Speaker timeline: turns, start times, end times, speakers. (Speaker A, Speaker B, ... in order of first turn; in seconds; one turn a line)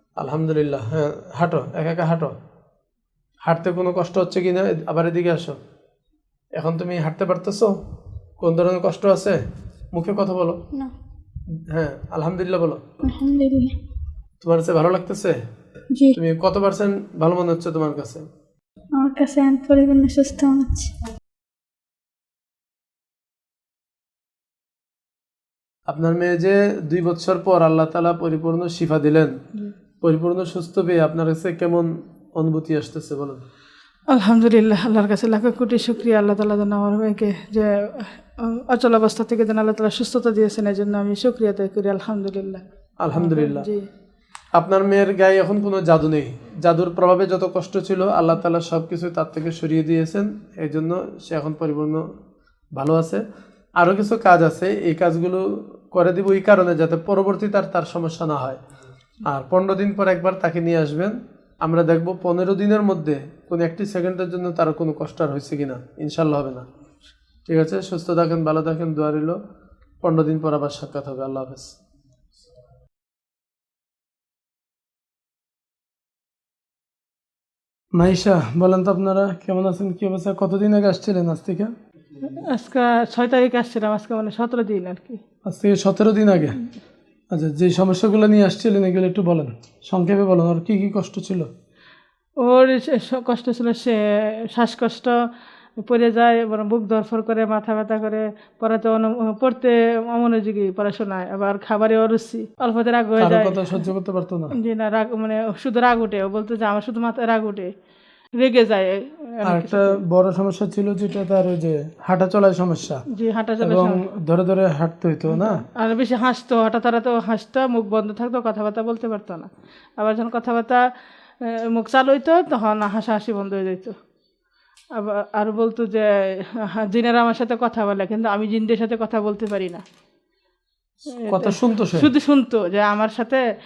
Speaker A: 0.2-2.3
Speaker A: 3.4-5.6
Speaker A: 6.5-7.8
Speaker A: 8.4-9.4
Speaker A: 9.9-10.6
Speaker A: 11.7-12.8
Speaker B: 13.0-13.8
Speaker A: 14.4-15.3
Speaker A: 16.1-18.3
Speaker B: 18.9-21.1
Speaker A: 25.9-29.4
Speaker A: 30.0-33.4
Speaker C: 34.1-43.9
Speaker A: 43.0-43.7
Speaker A: 44.5-52.0
Speaker A: 52.8-53.2
Speaker A: 53.8-58.6
Speaker A: 59.2-66.6
Speaker A: 67.5-69.4
Speaker A: 70.0-71.8
Speaker A: 77.9-81.7
Speaker C: 82.2-85.2
Speaker A: 85.4-86.6
Speaker A: 87.3-91.5
Speaker C: 92.4-95.2
Speaker C: 95.8-103.9
Speaker A: 103.2-104.5
Speaker C: 104.5-107.7
Speaker C: 108.4-110.0
Speaker A: 109.4-113.0
Speaker C: 113.1-114.0
Speaker A: 113.6-115.6
Speaker C: 115.3-120.8
Speaker C: 121.4-124.0
Speaker C: 124.9-129.8
Speaker C: 131.1-133.4
Speaker A: 131.3-132.1